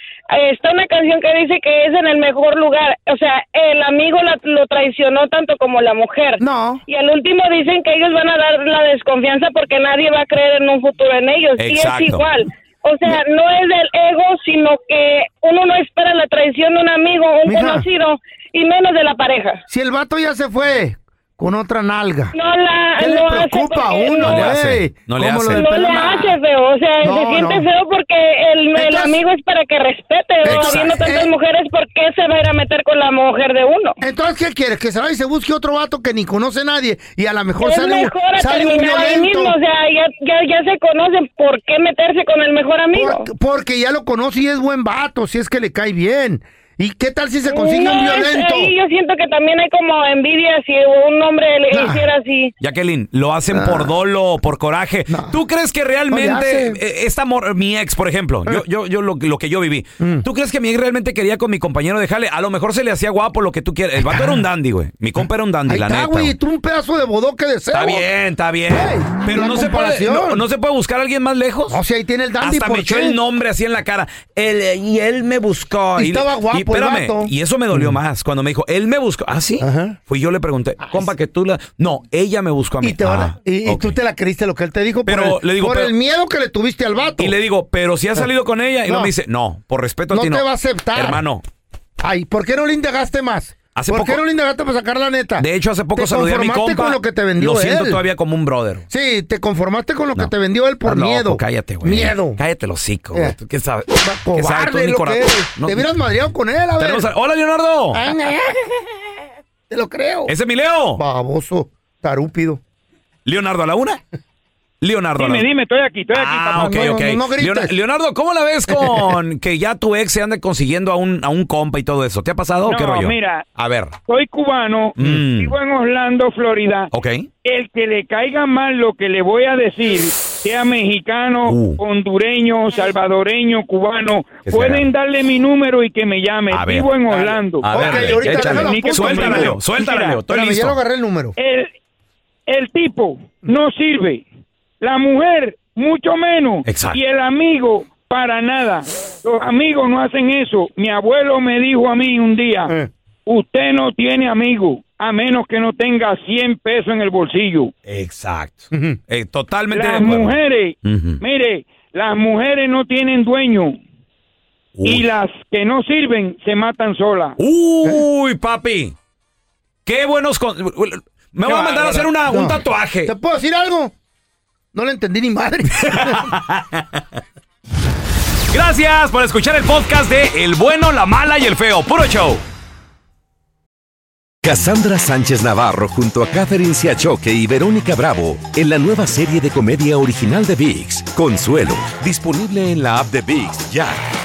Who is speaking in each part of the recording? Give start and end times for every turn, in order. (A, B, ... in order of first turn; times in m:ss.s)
0:00.3-0:19.6 A
0:06.4-0:06.8 B
0:11.6-0:12.2 C
0:17.4-0:17.9 B
0:19.7-0:22.3 B
0:22.3-0:24.5 A
0:23.0-0:26.4 B
0:24.2-0:25.6 C
0:25.5-0:34.0 A
0:27.0-0:27.7 B
0:28.7-0:29.2 B
0:30.4-0:31.3 B
0:30.4-0:31.0 C
0:34.0-0:39.6 B
0:37.6-0:43.2 A
0:42.9-0:48.7 B
0:47.5-0:52.5 A
0:51.7-0:52.1 B
0:52.6-1:06.3 C
0:53.5-0:53.9 B
0:55.1-0:55.4 B
0:56.1-0:56.8 B
1:00.0-1:00.2 B
1:04.0-1:04.4 B
1:05.2-1:08.1 B
1:07.7-1:11.8 C
1:08.7-1:10.4 B
1:11.7-1:13.2 B
1:12.4-1:24.0 C
1:16.0-1:18.0 B
1:19.6-1:20.0 B
1:20.8-1:21.1 B
1:22.8-1:27.3 B
1:25.0-1:25.9 C
1:27.2-1:31.4 C
1:28.8-1:29.1 B
1:30.1-1:31.2 B
1:32.0-1:38.0 B
1:33.7-1:34.2 C
1:35.4-1:38.8 C
1:38.9-1:42.4 B
1:40.8-1:45.9 C
1:43.9-1:47.1 B
1:46.8-1:48.0 C
1:47.9-1:48.8 B
1:49.7-1:50.3 B
1:50.3-1:51.0 C
1:51.0-1:52.6 B
1:53.2-1:54.0 C
1:54.8-1:55.4 C
1:55.2-1:56.8 D
1:56.1-2:03.9 C
1:56.3-1:57.8 B
1:58.7-1:59.2 B
2:02.6-2:03.4 D
2:04.1-2:06.9 D
2:05.0-2:05.6 C
2:06.9-2:07.3 C
2:07.4-2:20.2 D
2:11.4-2:11.8 C
2:14.4-2:14.9 C
2:16.5-2:16.9 C
2:17.1-2:21.4 B
2:17.6-2:20.8 C
2:21.4-2:21.7 D
2:22.5-2:24.2 D
2:24.8-2:32.7 D
2:26.6-2:27.0 C
2:33.3-2:37.7 D
2:37.8-2:41.2 C
2:38.7-2:39.0 B
2:39.7-2:43.8 D
2:44.8-2:45.1 C
2:44.8-2:47.4 D
2:47.4-2:48.9 C
2:49.8-2:53.1 C
2:52.3-2:53.9 B
2:54.7-2:56.3 B
2:55.8-2:57.0 C
2:58.5-3:02.4 C
3:04.4-3:14.0 E